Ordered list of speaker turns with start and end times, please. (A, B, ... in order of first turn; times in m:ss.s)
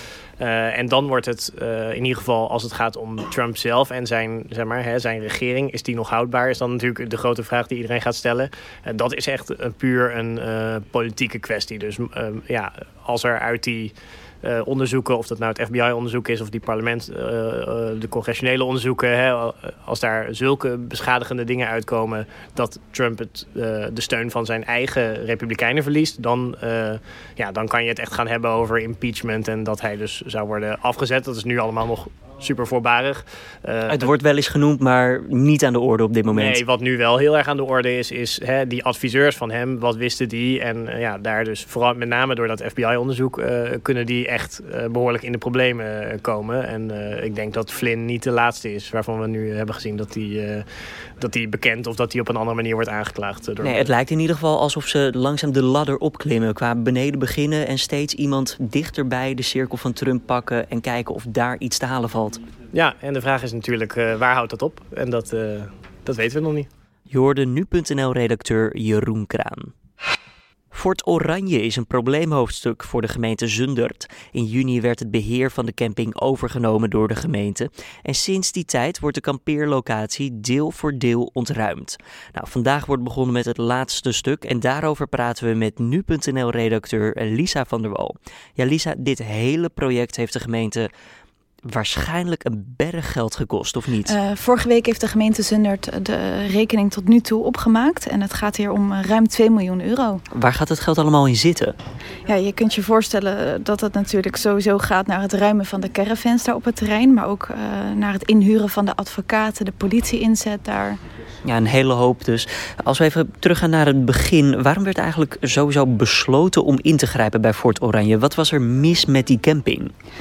0:00.4-0:34.1 A
0:33.9-0:36.6 B
0:36.3-0:50.6 A
0:51.2-0:53.9 A
0:53.6-1:02.4 B
1:02.7-1:06.7 A
1:07.1-1:09.7 B
1:10.7-1:30.9 B
1:31.6-1:34.1 B
1:34.0-1:40.2 C
1:40.3-1:41.8 B
1:42.2-1:51.0 C
1:51.4-1:59.9 B